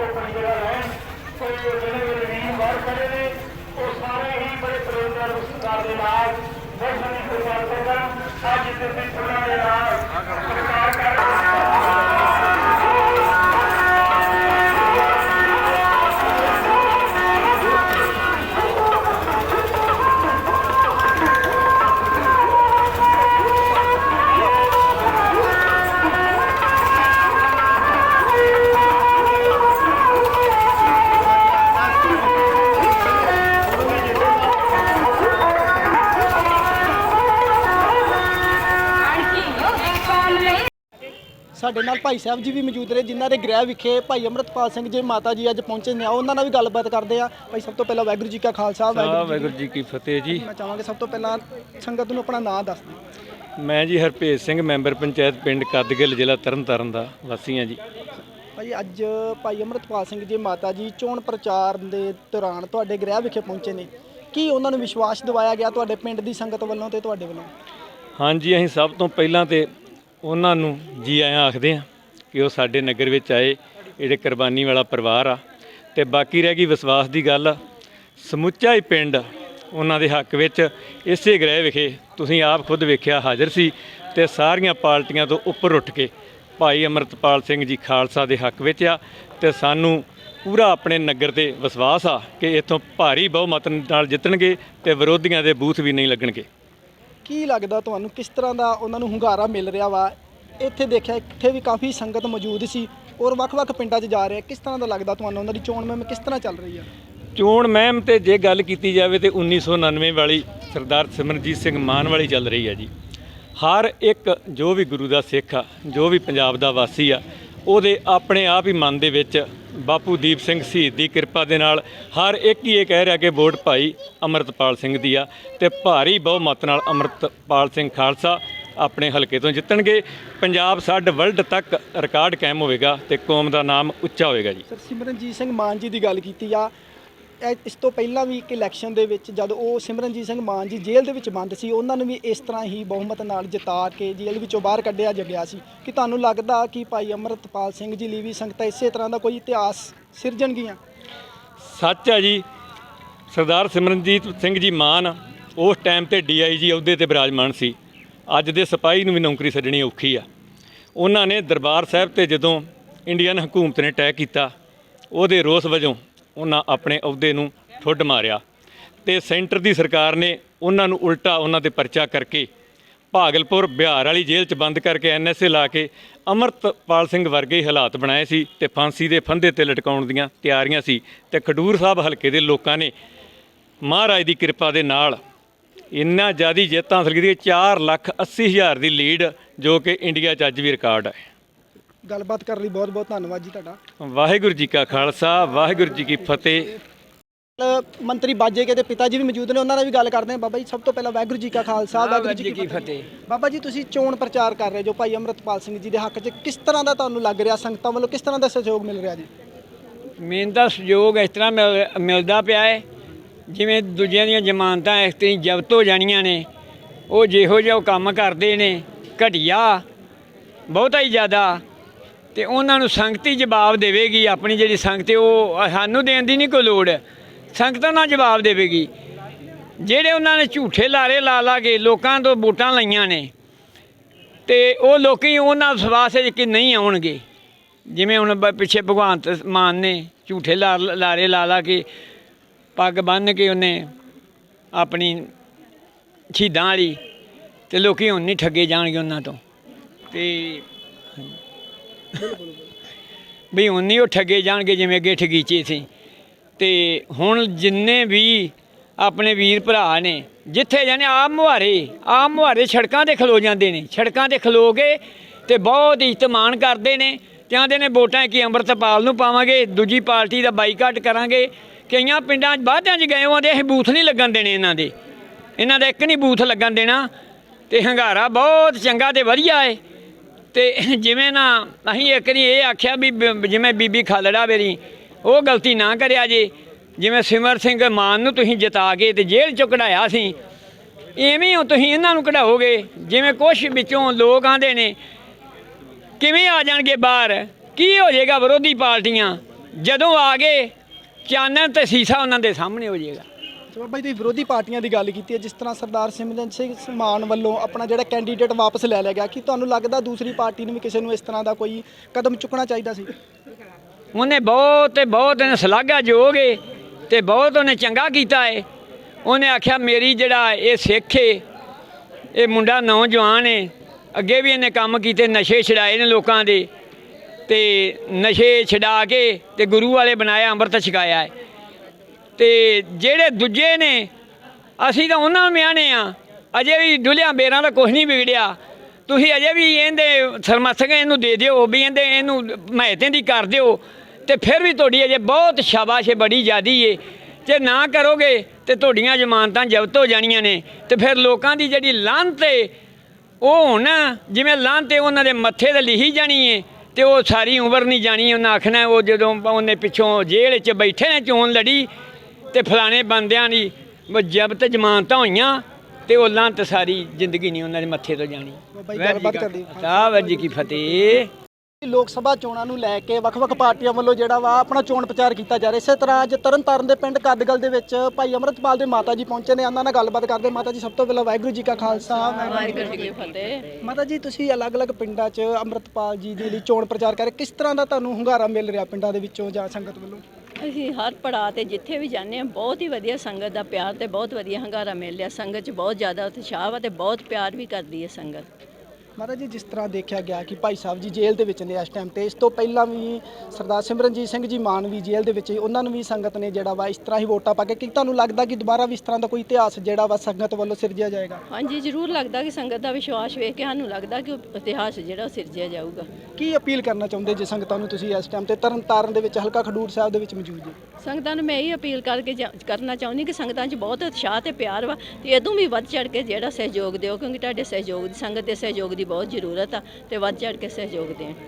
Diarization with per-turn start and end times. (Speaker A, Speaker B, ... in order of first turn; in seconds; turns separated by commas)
Speaker A: 41.6-49.5, Speaker B: 48.9-50.5, Speaker A: 50.3-53.0, Speaker B: 53.6-57.8, Speaker A: 58.6-67.5, Speaker B: 68.2-69.7, Speaker B: 70.2-75.4, Speaker B: 76.0-77.6, Speaker B: 78.2-96.5, Speaker A: 97.2-106.9, Speaker B: 107.4-112.9, Speaker B: 113.6-134.6, Speaker A: 134.7-136.7, Speaker A: 137.4-150.8, Speaker B: 151.6-152.4, Speaker B: 153.3-157.8, Speaker B: 158.3-160.3, Speaker B: 161.0-164.5, Speaker B: 165.1-168.4, Speaker B: 169.1-172.5, Speaker B: 173.1-182.9, Speaker B: 183.8-185.2, Speaker B: 185.9-191.2, Speaker A: 192.1-193.8, Speaker B: 194.0-196.8, Speaker A: 197.6-209.3, Speaker C: 201.9-203.0, Speaker C: 210.2-212.8, Speaker C: 213.5-216.5, Speaker C: 217.1-219.8, Speaker C: 220.7-221.6, Speaker C: 222.3-227.0, Speaker C: 227.5-228.9, Speaker C: 229.8-233.3, Speaker C: 234.5-237.2, Speaker C: 237.9-241.9, Speaker C: 242.8-243.9, Speaker C: 244.7-245.3, Speaker C: 246.3-247.0, Speaker C: 247.7-249.4, Speaker C: 250.1-250.7, Speaker A: 252.2-252.7, Speaker C: 253.5-255.9, Speaker C: 256.6-274.9, Speaker C: 275.6-277.1, Speaker C: 277.7-279.8, Speaker C: 280.5-290.4, Speaker C: 291.2-295.0, Speaker C: 296.2-300.7, Speaker C: 301.3-303.3, Speaker A: 303.7-313.1, Speaker C: 314.1-318.6, Speaker C: 319.2-321.4, Speaker C: 322.3-326.7, Speaker C: 327.5-331.3, Speaker C: 332.4-334.1, Speaker C: 334.8-352.7, Speaker C: 353.4-361.9, Speaker C: 362.5-371.3, Speaker A: 368.7-371.2, Speaker A: 371.8-383.1, Speaker D: 382.1-383.7, Speaker A: 383.8-390.2, Speaker D: 390.6-398.5, Speaker A: 399.2-411.4, Speaker D: 411.5-416.1, Speaker A: 416.4-420.8, Speaker D: 421.0-431.4